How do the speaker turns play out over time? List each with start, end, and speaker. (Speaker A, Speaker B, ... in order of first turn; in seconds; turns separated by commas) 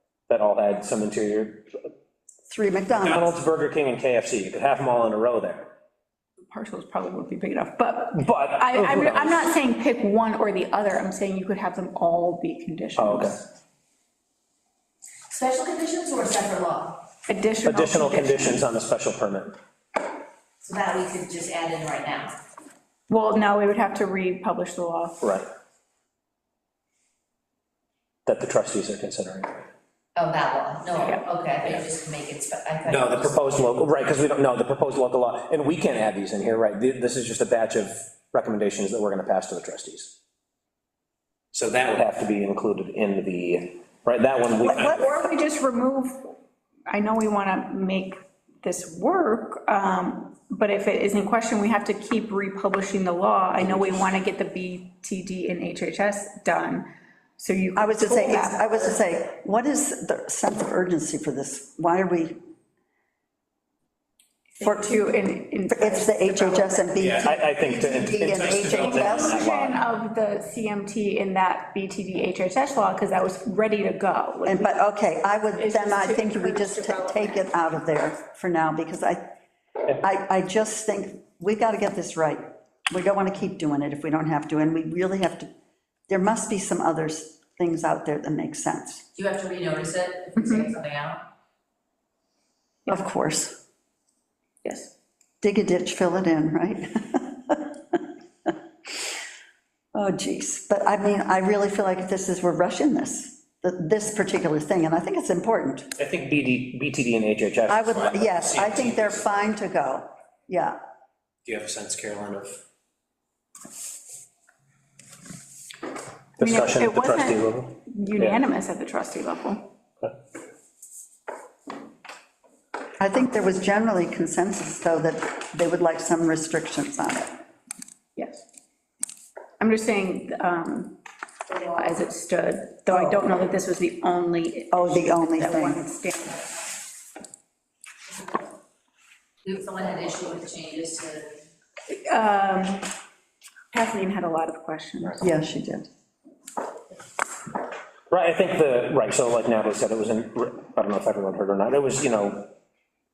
Speaker A: 0.3-1.7, Speaker B: 2.5-3.3, Speaker A: 3.0-5.7, Speaker C: 6.5-13.3, Speaker A: 8.1-9.6, Speaker A: 13.0-13.3, Speaker D: 15.3-17.0, Speaker C: 17.3-18.6, Speaker A: 17.6-19.5, Speaker D: 20.6-22.4, Speaker C: 23.1-25.2, Speaker A: 25.2-25.5, Speaker A: 28.2-29.7, Speaker D: 30.1-33.7, Speaker A: 32.8-40.1, Speaker A: 41.5-45.1, Speaker B: 44.6-45.3, Speaker C: 44.9-46.3, Speaker C: 46.9-56.9, Speaker C: 57.4-58.9, Speaker B: 57.8-62.4, Speaker C: 64.6-66.9, Speaker B: 64.6-65.0, Speaker B: 65.7-69.4, Speaker A: 67.0-69.8, Speaker C: 68.6-74.7, Speaker B: 74.4-79.3, Speaker C: 75.5-77.4, Speaker B: 79.9-85.5, Speaker B: 86.1-89.0, Speaker D: 89.1-91.2, Speaker C: 90.4-90.6, Speaker B: 92.9-93.5, Speaker C: 94.6-94.9, Speaker B: 95.4-98.0, Speaker B: 99.9-105.9, Speaker A: 106.0-109.3, Speaker B: 107.7-110.8, Speaker A: 111.4-112.6, Speaker A: 116.4-118.4, Speaker C: 116.4-119.7, Speaker B: 123.0-127.4, Speaker C: 128.2-128.4, Speaker C: 129.6-131.0, Speaker C: 131.5-136.5, Speaker B: 132.9-133.2, Speaker B: 134.7-135.9, Speaker D: 139.4-141.4, Speaker C: 141.9-142.9, Speaker C: 143.7-145.2, Speaker B: 145.2-145.9, Speaker A: 148.1-152.5